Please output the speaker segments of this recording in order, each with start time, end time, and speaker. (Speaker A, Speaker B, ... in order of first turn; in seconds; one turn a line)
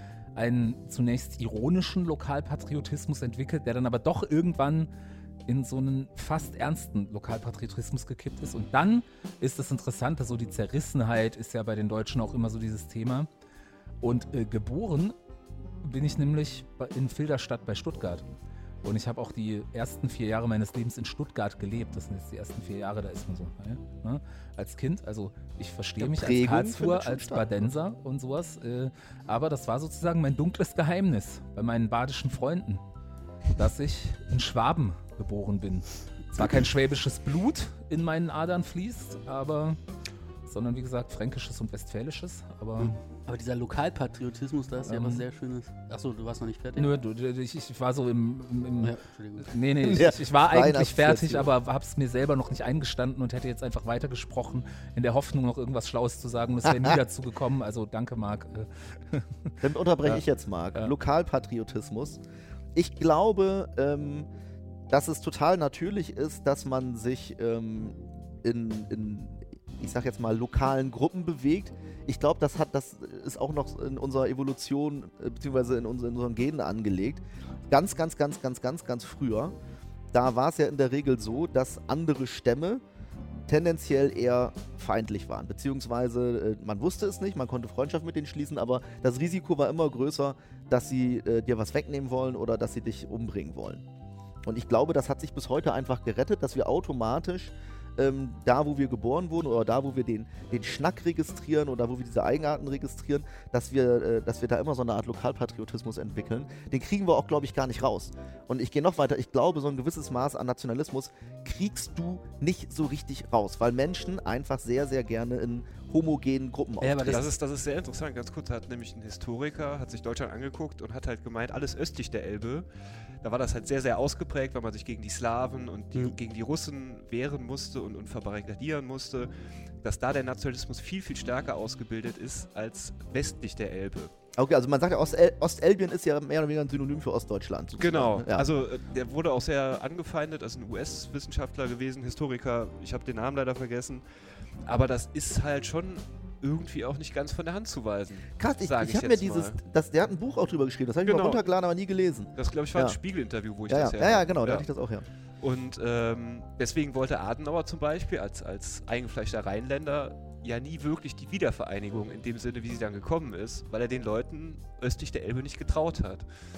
Speaker A: 0.3-4.9
Speaker A: 5.5-13.3
Speaker A: 14.0-15.2
Speaker A: 15.8-18.2
Speaker A: 18.8-32.8
Speaker B: 26.0-27.7
Speaker A: 33.5-39.8
Speaker A: 40.5-43.0
Speaker C: 43.2-46.9
Speaker A: 44.9-45.2
Speaker A: 46.8-60.2
Speaker C: 48.8-50.0
Speaker B: 49.9-51.5
Speaker B: 56.7-57.0
Speaker B: 59.6-62.2
Speaker B: 62.7-64.3
Speaker B: 64.9-79.5
Speaker B: 80.1-82.8
Speaker B: 83.5-93.8
Speaker B: 94.4-117.3
Speaker C: 116.8-117.3
Speaker D: 117.0-122.7
Speaker D: 123.2-129.3
Speaker D: 129.8-134.1
Speaker B: 134.3-138.5
Speaker D: 137.8-144.1
Speaker D: 144.6-149.6
Speaker B: 148.4-153.0
Speaker D: 151.0-151.4
Speaker D: 152.3-154.7
Speaker B: 153.7-155.1
Speaker D: 155.4-166.3